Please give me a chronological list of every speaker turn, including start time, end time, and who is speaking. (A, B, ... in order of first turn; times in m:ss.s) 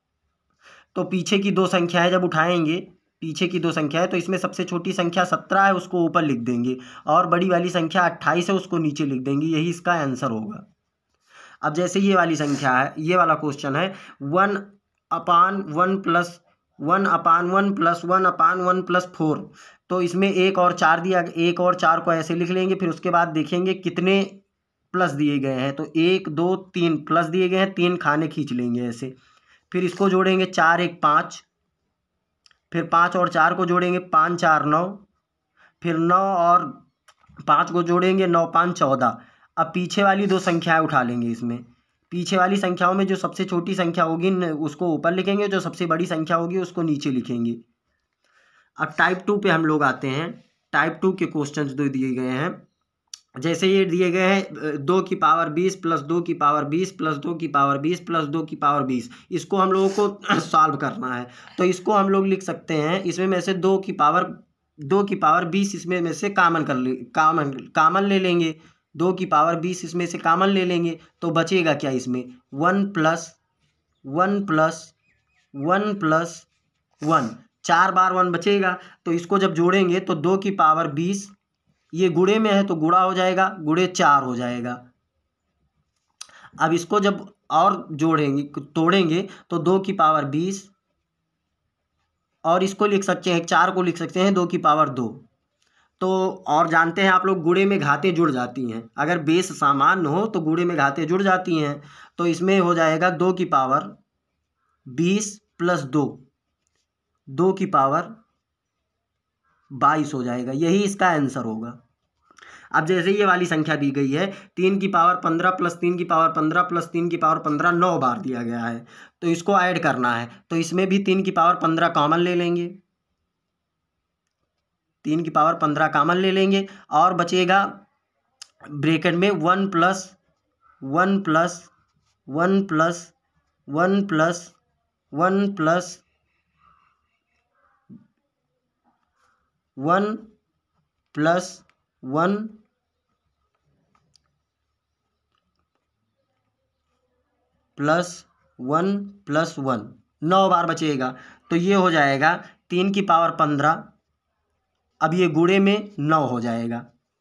0:00.9-0:10.6 A
0:11.6-0:24.4 A
0:24.9-0:29.1 A
0:29.7-0:31.4 A
0:32.7-0:35.0 A
0:35.8-0:36.8 A
0:37.4-0:47.6 A
0:48.8-0:52.6 A
0:53.4-1:13.4 A
1:14.0-1:14.9 A
1:15.5-1:16.5 A
1:17.0-1:21.3 A
1:21.9-1:24.8 A
1:26.6-1:30.7 A
1:32.4-1:35.2 A
1:36.0-1:44.0 A
1:44.9-1:46.2 A
1:47.3-1:48.1 A
1:49.7-1:51.8 A
1:52.7-2:02.8 A
2:05.0-2:07.8 A
2:08.7-2:10.2 A
2:10.8-2:11.7 A
2:12.3-2:13.1 A
2:13.7-2:14.5 A
2:15.1-2:16.0 A
2:19.8-2:20.3 A
2:21.1-2:22.6 A
2:27.8-2:33.9 A
2:35.0-2:36.8 A